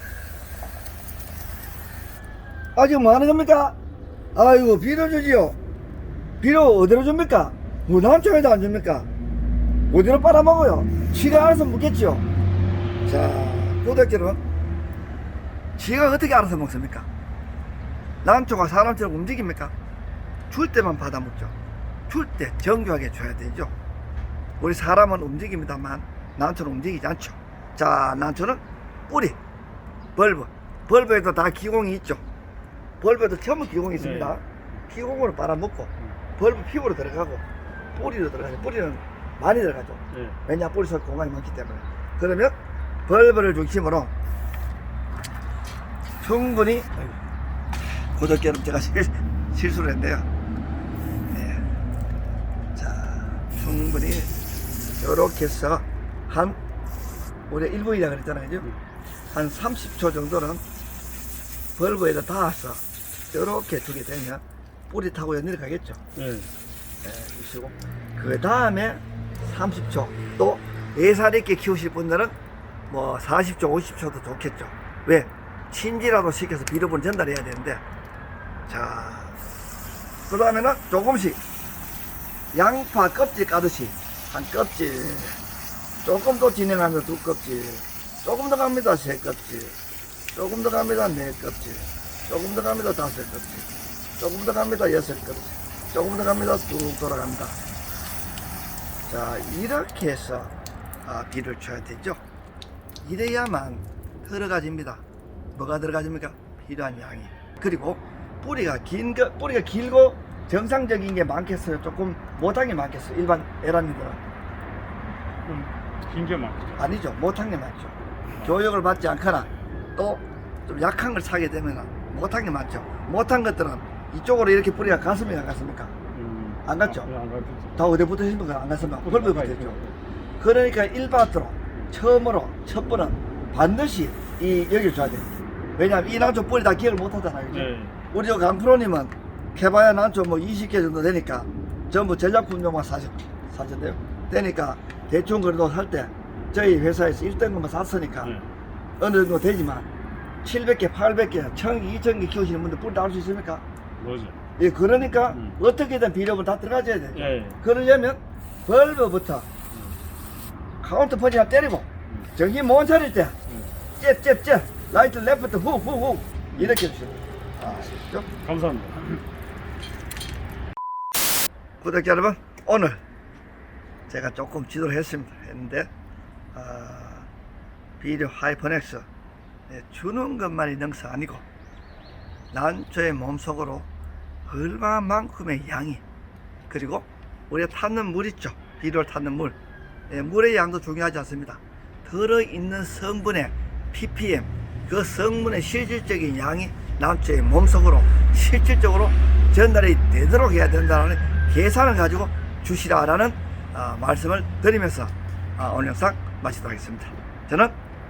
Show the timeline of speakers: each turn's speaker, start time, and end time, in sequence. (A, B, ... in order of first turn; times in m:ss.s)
0:02.8-0:03.8 A
0:04.4-0:05.6 A
0:06.4-0:09.1 A
0:09.9-0:12.3 A
0:13.0-0:14.4 A
0:15.8-0:17.1 A
0:18.2-0:19.7 A
0:20.5-0:21.5 A
0:22.1-0:23.7 A
0:24.6-0:29.4 A
0:30.2-0:32.2 A
0:33.0-0:44.1 A
0:34.0-0:34.4 B
0:46.2-0:46.9 A
0:48.2-0:50.3 A
0:51.3-0:51.6 A
0:52.8-0:54.3 A
0:55.0-0:56.6 A
0:57.5-0:58.7 A
0:59.3-1:00.6 A
1:01.8-1:06.0 A
1:06.2-1:06.5 B
1:07.0-1:12.4 A
1:12.9-1:17.8 A
1:18.7-1:19.4 A
1:20.3-1:21.4 A
1:22.5-1:25.4 A
1:26.0-1:29.8 A
1:30.3-1:37.6 A
1:39.1-1:40.5 A
1:41.0-1:42.2 A
1:43.0-1:54.2 A
1:55.4-1:57.0 B
1:56.8-2:05.9 A
2:06.2-2:07.8 B
2:06.6-2:07.1 A
2:07.8-2:09.8 A
2:09.0-2:10.0 B
2:10.4-2:28.3 A
2:17.5-2:18.0 B
2:28.2-2:28.5 B
2:29.0-2:29.9 A
2:30.4-2:33.6 A
2:34.0-2:34.4 B
2:34.6-2:39.5 A
2:35.3-2:35.6 B
2:37.2-2:37.6 B
2:40.8-2:43.4 A
2:44.0-2:48.3 A
2:48.4-2:49.2 B
2:51.8-2:53.0 A
2:54.1-2:55.9 A
2:56.5-2:57.3 A
2:58.0-2:59.1 A
2:59.7-3:01.4 A
3:02.5-3:03.9 A
3:04.4-3:06.0 A
3:06.7-3:09.6 A
3:10.1-3:27.8 A